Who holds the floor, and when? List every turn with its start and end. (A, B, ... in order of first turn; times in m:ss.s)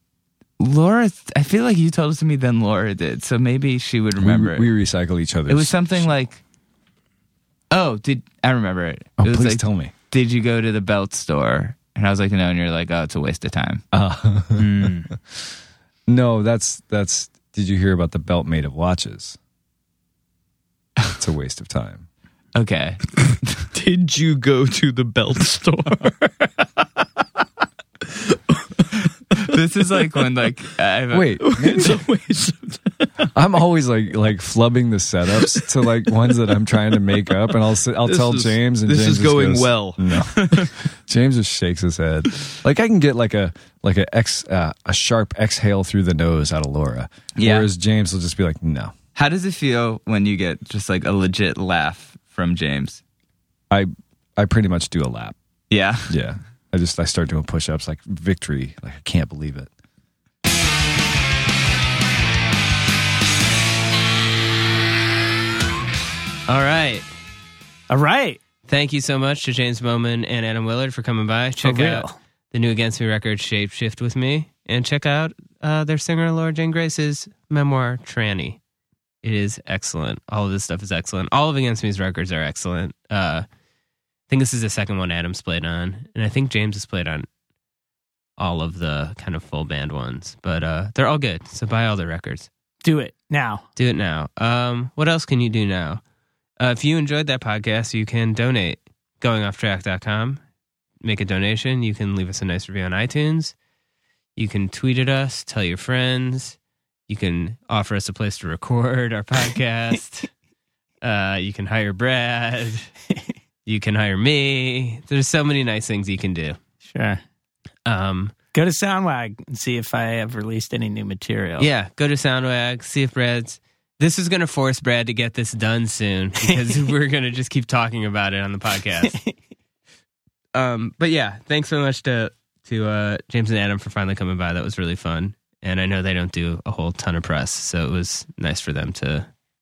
0:00.6-0:04.7 A
0:04.2-0:06.1 B
0:05.5-0:06.4 A
0:07.7-0:13.8 A
0:09.2-0:09.9 B
0:13.9-0:14.9 B
0:14.6-0:15.1 C
0:16.1-0:19.4 B
0:21.1-0:22.0 B
0:22.5-0:23.7 A
0:23.7-0:26.8 C
0:28.0-0:29.4 C
0:29.4-0:31.4 A
0:31.1-0:32.0 B
0:31.4-0:33.3 C
0:33.3-0:48.9 B
0:38.0-0:40.7 C
0:47.4-0:47.7 A
0:49.1-0:53.0 A
0:53.7-0:55.4 B
0:55.7-0:56.1 A
0:56.1-0:59.7 B
1:06.5-1:07.0 D
1:07.9-1:08.4 E
1:08.7-1:18.6 D
1:11.6-1:12.2 E
1:19.2-1:23.4 D
1:24.3-1:27.3 D
1:28.4-1:32.5 D
1:32.8-1:33.6 E
1:33.8-1:36.0 D
1:36.6-1:40.4 D
1:41.0-1:43.5 D
1:44.4-1:46.6 D
1:47.1-1:50.3 D
1:51.0-1:52.9 D
1:53.6-1:56.6 D
1:56.8-1:57.2 E
1:57.8-1:58.3 D
1:58.5-2:01.7 E
2:01.6-2:09.2 D
2:10.5-2:19.3 D